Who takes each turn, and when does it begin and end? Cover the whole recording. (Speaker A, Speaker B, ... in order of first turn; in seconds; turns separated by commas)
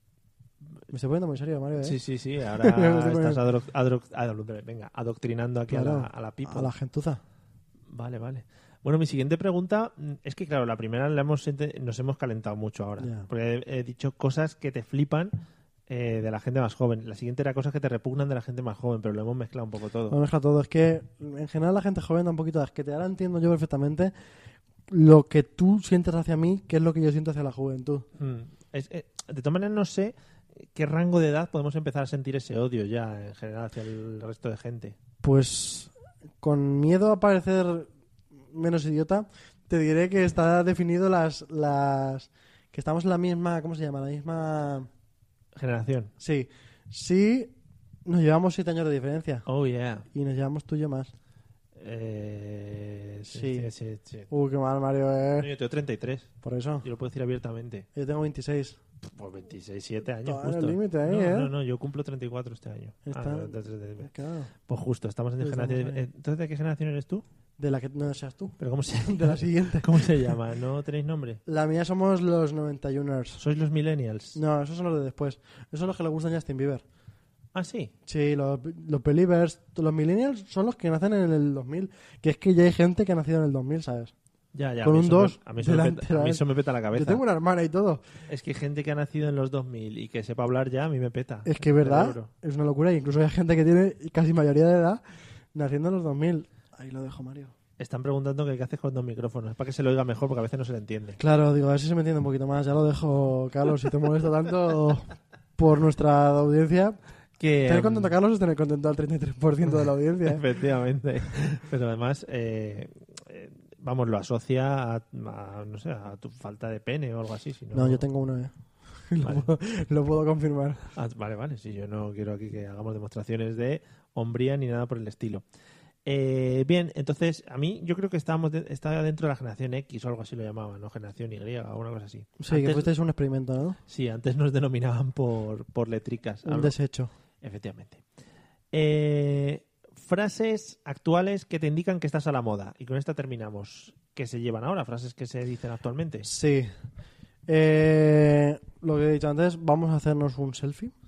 Speaker A: 0.9-2.0, Speaker B: 1.8-6.7, Speaker A: 2.6-3.4, Speaker A: 5.7-7.2, Speaker B: 7.9-15.3, Speaker A: 13.0-13.3, Speaker B: 15.9-20.2, Speaker A: 20.1-24.1, Speaker A: 24.9-28.1, Speaker B: 28.2-30.1, Speaker B: 30.7-35.0, Speaker A: 35.2-37.9, Speaker A: 38.5-44.9, Speaker B: 45.5-46.1, Speaker A: 46.2-49.5, Speaker B: 49.5-50.0, Speaker A: 50.1-51.1, Speaker B: 51.8-54.3, Speaker A: 53.3-53.7, Speaker A: 54.3-55.5, Speaker B: 55.4-57.9, Speaker A: 56.4-56.9, Speaker A: 57.9-58.8, Speaker B: 59.0-64.1, Speaker A: 60.2-61.5, Speaker A: 63.0-64.5, Speaker B: 64.7-67.2, Speaker A: 65.4-66.0, Speaker A: 67.6-70.3, Speaker B: 68.6-71.4, Speaker A: 71.5-73.4, Speaker B: 73.4-74.4, Speaker A: 74.3-76.8, Speaker B: 77.5-77.9, Speaker A: 78.1-84.1, Speaker B: 84.5-87.2, Speaker A: 84.8-88.0, Speaker B: 88.3-92.3, Speaker A: 91.5-95.0, Speaker A: 95.5-97.5, Speaker B: 97.8-101.2, Speaker A: 101.2-107.0, Speaker B: 107.4-108.1, Speaker A: 107.6-110.4, Speaker B: 110.2-118.0, Speaker A: 117.7-118.5, Speaker A: 119.1-120.8, Speaker B: 119.2-119.5, Speaker B: 120.9-125.4, Speaker B: 126.0-132.9, Speaker A: 132.4-133.8, Speaker B: 133.9-136.7, Speaker A: 136.4-137.1, Speaker B: 137.4-138.0, Speaker B: 138.7-146.3, Speaker A: 146.2-146.7, Speaker A: 147.5-150.9